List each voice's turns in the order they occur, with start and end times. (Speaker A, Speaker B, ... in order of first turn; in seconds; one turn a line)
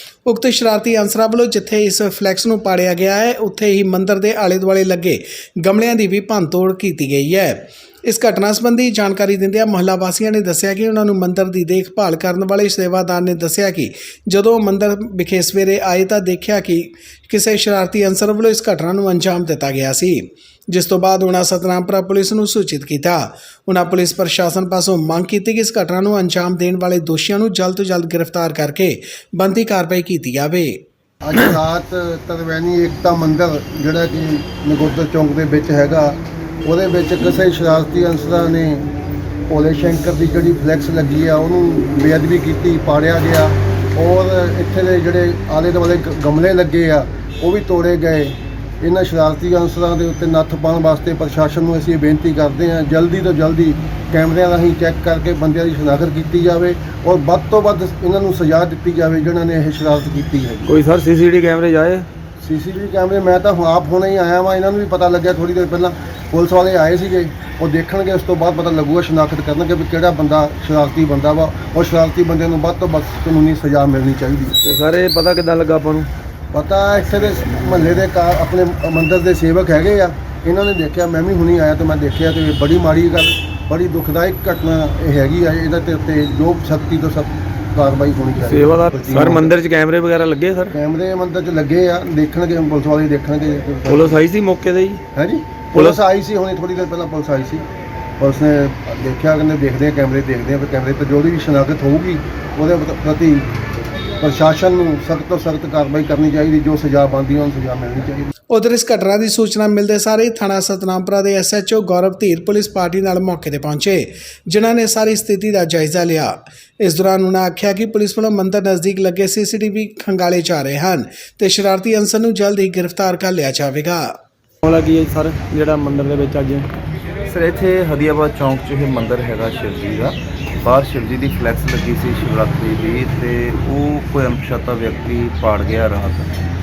Speaker A: 0.2-30.8
Speaker B: 31.2-38.9
Speaker B: 39.5-60.7
Speaker C: 60.7-62.1
Speaker B: 62.4-74.6
Speaker C: 74.6-76.1
Speaker B: 76.5-89.5
Speaker C: 88.5-90.7
Speaker B: 90.7-94.2
Speaker C: 93.9-95.0
Speaker B: 95.1-97.6
Speaker B: 98.2-103.5
Speaker B: 104.2-108.3
Speaker A: 108.5-124.2
Speaker C: 124.6-126.7
Speaker D: 127.3-136.3